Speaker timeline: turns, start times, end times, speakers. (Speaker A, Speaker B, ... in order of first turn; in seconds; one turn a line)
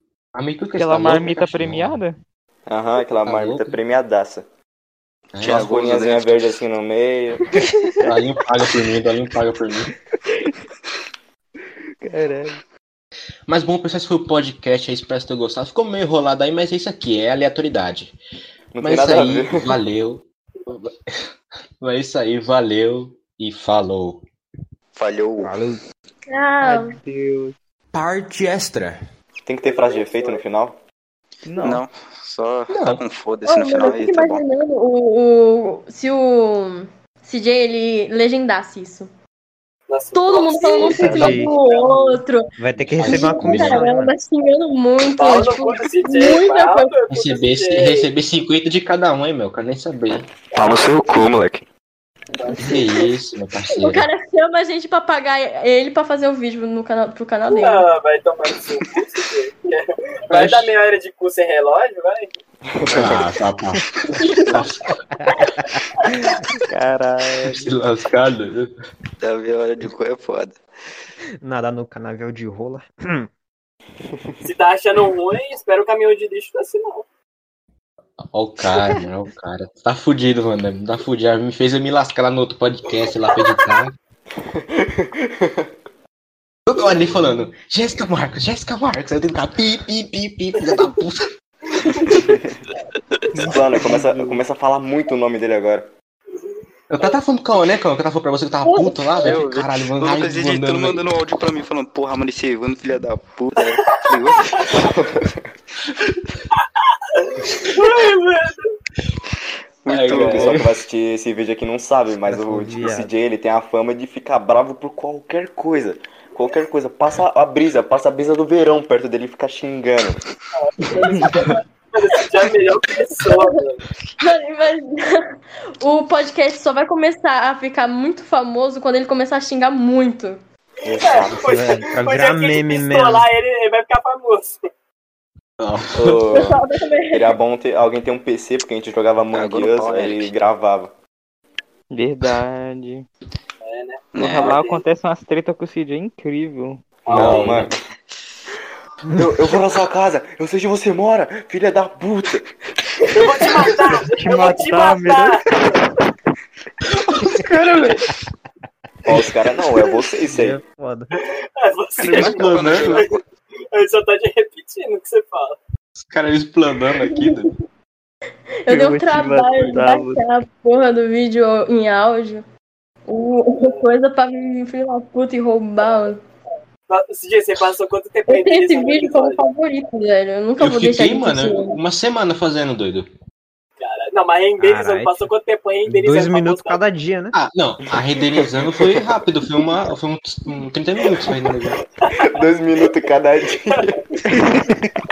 Speaker A: 0.3-2.0
Speaker B: 0.8-2.1
Speaker C: 2.7-4.5
Speaker A: 3.2-3.8
Speaker A: 5.3-5.7
Speaker D: 5.4-6.6
Speaker C: 5.4-7.5
Speaker A: 8.0-9.9
Speaker B: 12.0-12.6
Speaker A: 13.5-18.2
Speaker C: 18.7-19.7
Speaker A: 18.8-21.3
Speaker A: 21.8-24.2
Speaker D: 24.9-25.6
Speaker E: 25.4-25.8
Speaker F: 26.3-27.0
Speaker B: 26.6-27.5
Speaker E: 27.9-28.9
Speaker C: 29.4-30.8
Speaker G: 29.6-30.4
Speaker B: 31.4-31.8
Speaker D: 31.6-34.4
Speaker A: 32.7-33.0
Speaker F: 33.4-39.1
Speaker G: 39.9-42.2
Speaker F: 40.1-47.0
Speaker E: 40.8-41.5
Speaker E: 42.6-44.1
Speaker A: 42.8-43.9
Speaker G: 45.2-48.1
Speaker A: 47.1-50.3
Speaker D: 50.5-51.6
Speaker G: 52.3-52.6
Speaker F: 52.5-53.1
Speaker A: 52.5-54.1
Speaker F: 53.6-57.9
Speaker G: 57.5-62.3
Speaker A: 60.3-60.7
Speaker C: 62.6-63.3
Speaker A: 62.9-64.9
Speaker F: 64.1-64.6
Speaker E: 65.2-65.7
Speaker B: 66.7-67.7
Speaker A: 67.4-68.7
Speaker D: 69.2-70.6
Speaker E: 71.4-73.3
Speaker C: 74.1-74.4
Speaker G: 74.4-77.0
Speaker A: 78.3-83.9
Speaker C: 84.4-85.7
Speaker A: 86.7-91.3
Speaker A: 91.8-92.3
Speaker C: 92.1-92.6
Speaker B: 93.3-94.4
Speaker C: 93.4-95.9
Speaker G: 96.3-97.1
Speaker A: 96.9-101.0
Speaker F: 98.6-99.2
Speaker D: 99.2-105.0
Speaker C: 104.9-105.4
Speaker G: 106.5-108.7
Speaker D: 109.8-110.6
Speaker A: 109.8-110.8
Speaker C: 110.0-120.2
Speaker E: 112.1-113.1
Speaker G: 120.5-123.8
Speaker F: 123.3-123.5
Speaker F: 124.2-130.4
Speaker C: 130.8-131.6
Speaker G: 130.9-134.6
Speaker E: 131.3-133.3
Speaker A: 135.6-136.4
Speaker C: 135.9-140.9
Speaker F: 136.3-137.3
Speaker D: 139.3-140.4
Speaker B: 141.9-143.1
Speaker G: 143.6-144.8
Speaker D: 144.1-144.6
Speaker B: 144.1-146.8
Speaker G: 147.0-147.6
Speaker C: 147.1-147.7
Speaker A: 147.1-147.7
Speaker C: 149.1-153.2
Speaker G: 153.1-155.8
Speaker B: 154.2-155.4
Speaker G: 157.2-157.9
Speaker A: 157.3-157.9
Speaker C: 159.0-160.6
Speaker E: 160.3-161.1
Speaker G: 161.2-163.0
Speaker D: 162.0-163.2
Speaker A: 162.0-163.0
Speaker G: 163.7-165.6
Speaker A: 165.9-167.5
Speaker F: 167.1-167.5
Speaker F: 168.6-172.4
Speaker B: 168.7-170.2
Speaker F: 173.1-176.2
Speaker G: 176.9-179.4
Speaker F: 178.3-181.8
Speaker A: 180.6-183.1
Speaker G: 183.8-186.8
Speaker E: 184.6-185.3
Speaker E: 185.9-187.3
Speaker A: 187.3-191.8
Speaker C: 188.1-189.0
Speaker G: 192.0-193.1
Speaker C: 192.1-194.2
Speaker B: 194.3-194.6